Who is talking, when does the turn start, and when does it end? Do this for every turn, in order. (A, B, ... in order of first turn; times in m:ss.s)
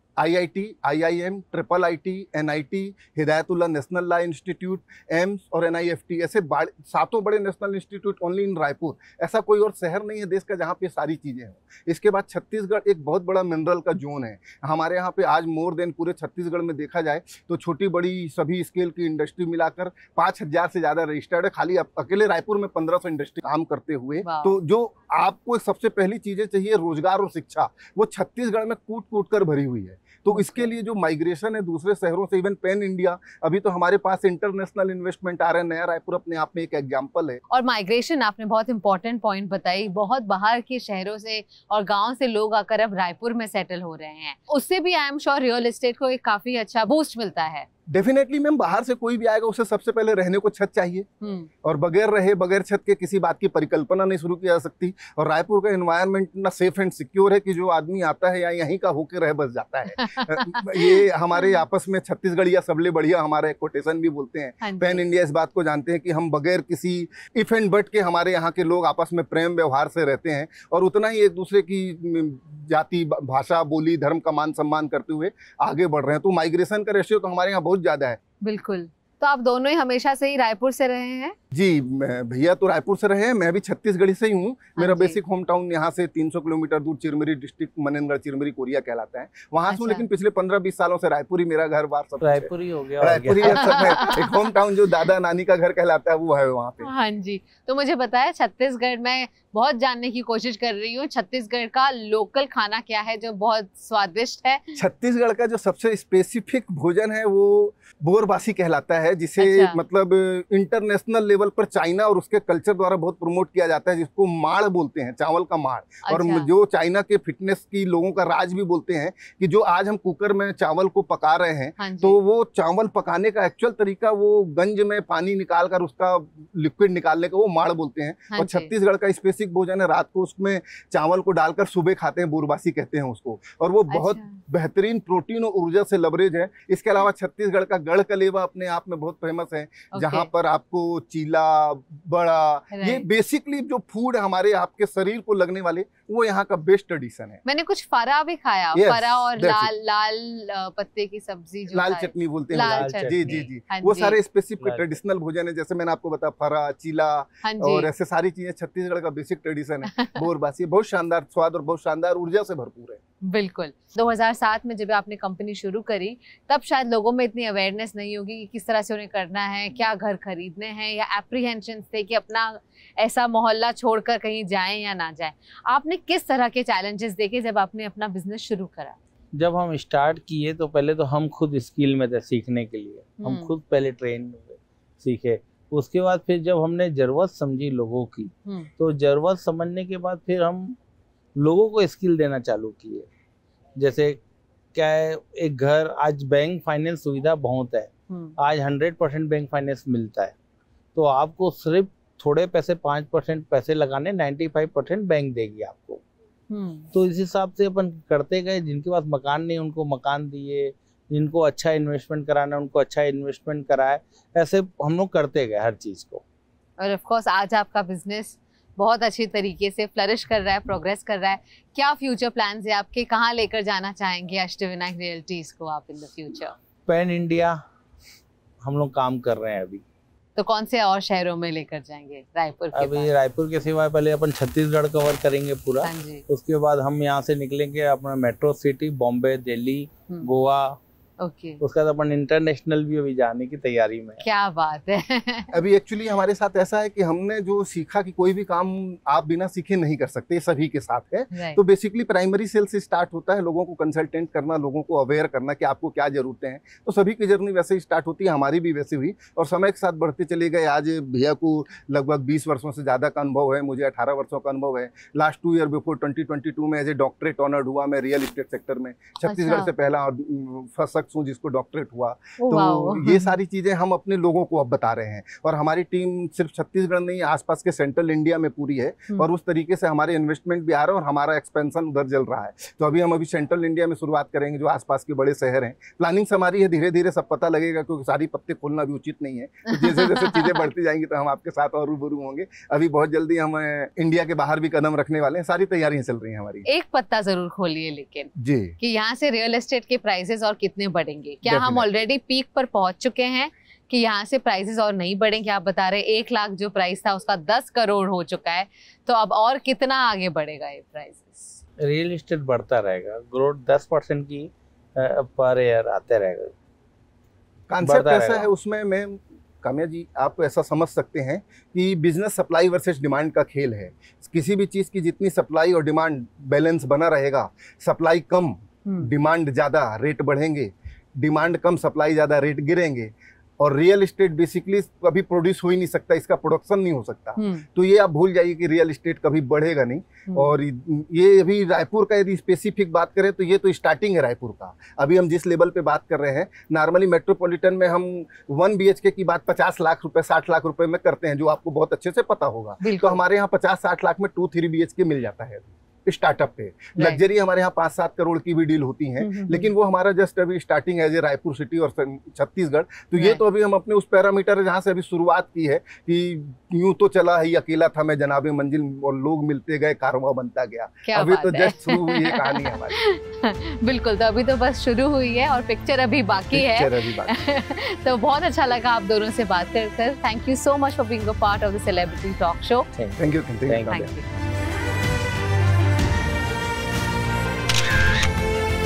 0:00.2-0:37.4 A
0:24.2-0:24.6 B
0:30.3-0:30.7 B
0:37.5-0:47.7 B
0:47.9-0:51.1 A
0:51.2-0:51.5 B
0:51.6-1:18.2 A
1:00.0-1:01.6 B
1:04.6-1:05.0 B
1:18.4-1:21.3 B
1:21.5-1:36.9 A
1:24.8-1:25.2 B
1:29.7-1:30.0 B
1:32.2-1:34.1 C
1:33.5-1:34.4 B
1:36.8-1:44.8 B
1:44.8-2:27.4 A
1:49.4-1:49.8 B
1:56.0-1:56.5 B
2:01.8-2:02.2 B
2:08.3-2:08.7 B
2:13.9-2:14.4 B
2:19.9-2:20.3 B
2:22.7-2:23.0 B
2:27.4-2:34.2 B
2:28.7-2:29.7 A
2:31.7-2:43.0 A
2:32.5-2:33.5 C
2:34.6-2:35.0 C
2:37.4-2:37.9 B
2:39.9-2:40.2 B
2:43.2-2:59.0 B
2:59.3-3:10.7 C
3:03.2-3:03.5 B
3:08.4-3:08.7 B
3:11.4-3:13.1 C
3:13.8-3:14.2 C
3:14.7-3:20.3 C
3:18.1-3:18.3 B
3:20.9-3:26.0 C
3:26.5-3:26.9 B
3:26.9-3:36.2 C
3:36.8-3:46.6 B
3:46.9-3:47.6 C
3:48.6-3:49.8 C
3:50.4-3:53.1 B
3:52.7-4:00.8 C
3:55.8-3:56.2 B
4:01.2-4:01.6 B
4:01.6-4:04.2 C
4:04.2-4:05.5 B
4:05.5-4:56.6 A
4:11.3-4:11.6 B
4:29.2-4:29.7 B
4:32.4-4:33.4 B
4:56.6-5:11.6 B
4:58.4-4:58.8 A
5:01.4-5:01.9 A
5:11.8-5:16.5 C
5:17.7-6:13.0 A
5:17.8-5:18.5 C
5:37.4-5:37.6 B
5:40.3-5:40.5 B
5:52.8-5:53.2 B
5:56.9-5:57.2 B
5:59.2-5:59.7 B
6:03.2-6:03.4 B
6:11.1-6:22.9 B
6:16.5-6:17.4 A
6:22.9-6:24.1 C
6:23.2-6:24.1 A
6:23.9-6:24.2 B